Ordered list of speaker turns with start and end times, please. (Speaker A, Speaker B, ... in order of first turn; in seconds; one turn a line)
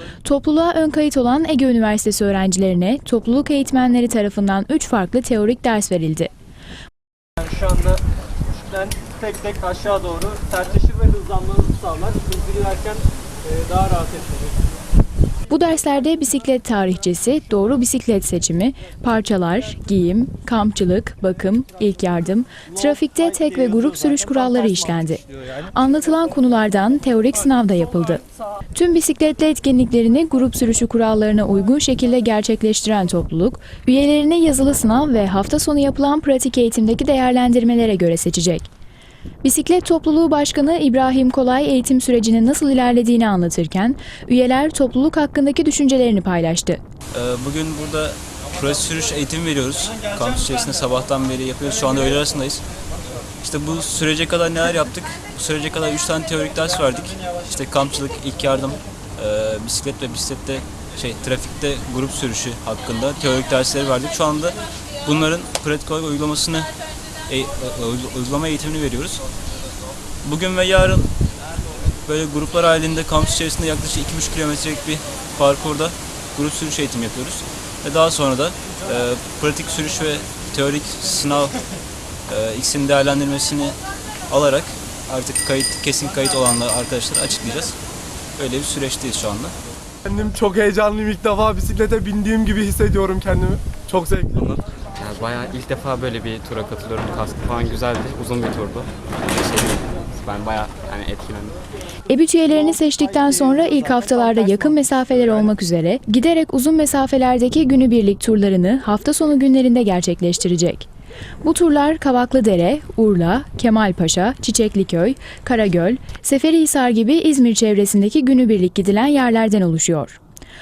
Speaker A: 0.2-6.3
Speaker B: 7.4-8.0
Speaker B: 8.6-14.5
Speaker A: 15.5-38.7
Speaker A: 39.4-46.8
Speaker C: 47.1-52.6
Speaker C: 53.4-66.7
Speaker C: 67.3-69.2
Speaker C: 70.2-71.1
Speaker C: 72.0-81.5
Speaker C: 82.3-83.8
Speaker C: 84.3-87.8
Speaker C: 88.4-89.5
Speaker D: 90.0-94.4
Speaker E: 94.3-101.6
Speaker A: 102.0-110.9
Speaker A: 111.4-120.2